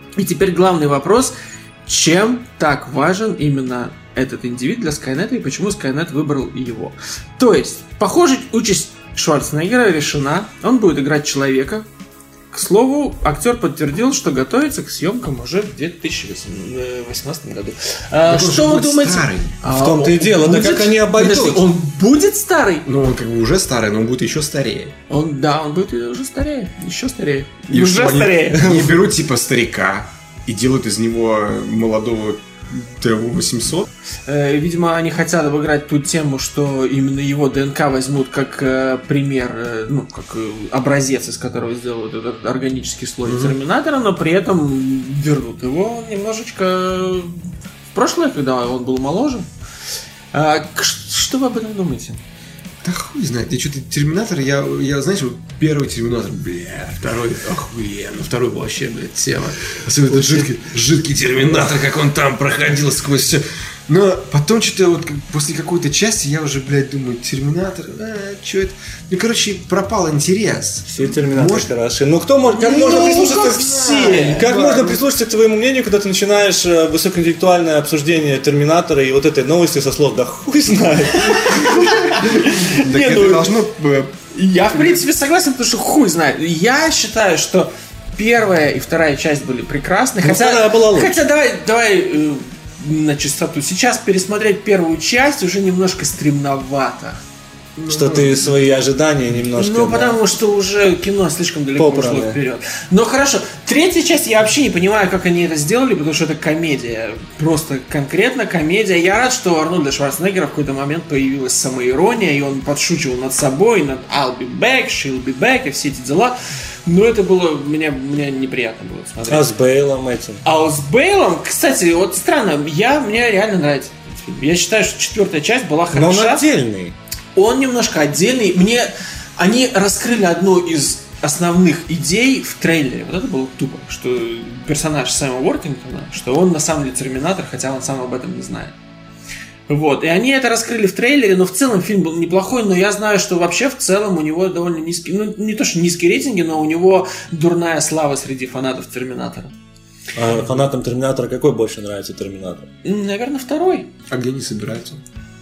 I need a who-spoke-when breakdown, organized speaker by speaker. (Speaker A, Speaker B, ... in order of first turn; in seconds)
Speaker A: 0.1-11.9, 12.5-22.9, 25.1-28.8, 34.2-47.4, 47.9-49.5, 50.3-52.2, 72.5-74.5, 82.1-83.5, 84.3-97.2, 99.5-119.5, 120.4-126.5, 127.3-138.8, 139.7-149.5, 152.8-153.9
Speaker B: 18.2-19.6, 22.9-24.9, 27.7-33.9, 43.2-43.6, 52.8-71.7, 72.5-75.0, 82.6-84.2, 97.8-98.6, 154.1-155.0
Speaker C: 19.6-21.6, 28.6-28.9, 70.9-73.5, 74.0-82.2, 90.2-91.2, 97.9-100.2, 101.8-102.4, 119.3-120.4, 125.9-127.0, 150.2-152.7